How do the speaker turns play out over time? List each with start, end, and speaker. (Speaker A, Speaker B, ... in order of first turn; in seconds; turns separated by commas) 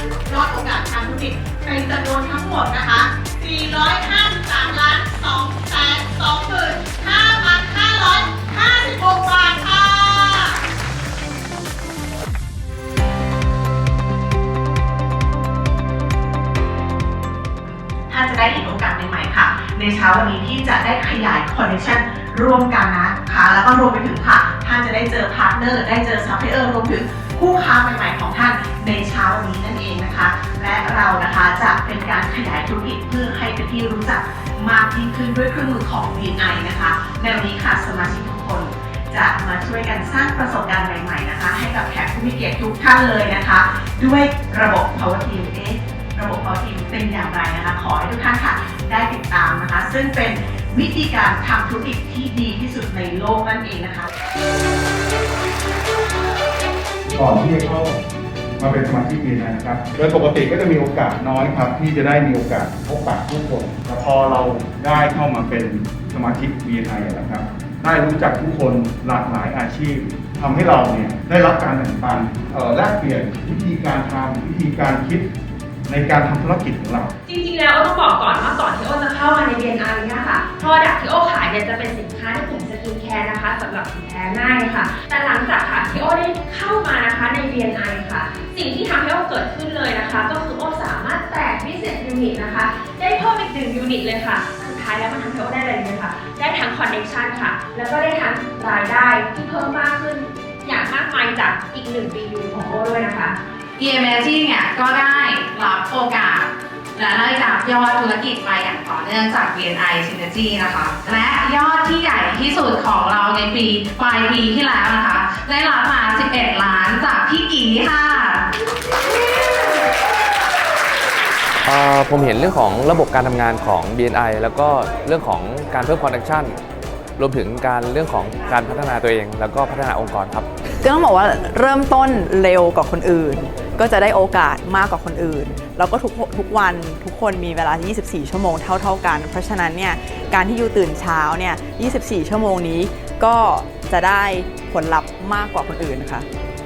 Speaker A: 0.3-10.5, Speaker A: 18.1-54.1, Speaker B: 57.1-58.0, Speaker B: 58.6-75.3, Speaker B: 75.9-77.1, Speaker C: 77.2-103.4, Speaker D: 103.8-118.5, Speaker E: 121.6-126.6, Speaker E: 127.2-130.5, Speaker F: 130.8-146.2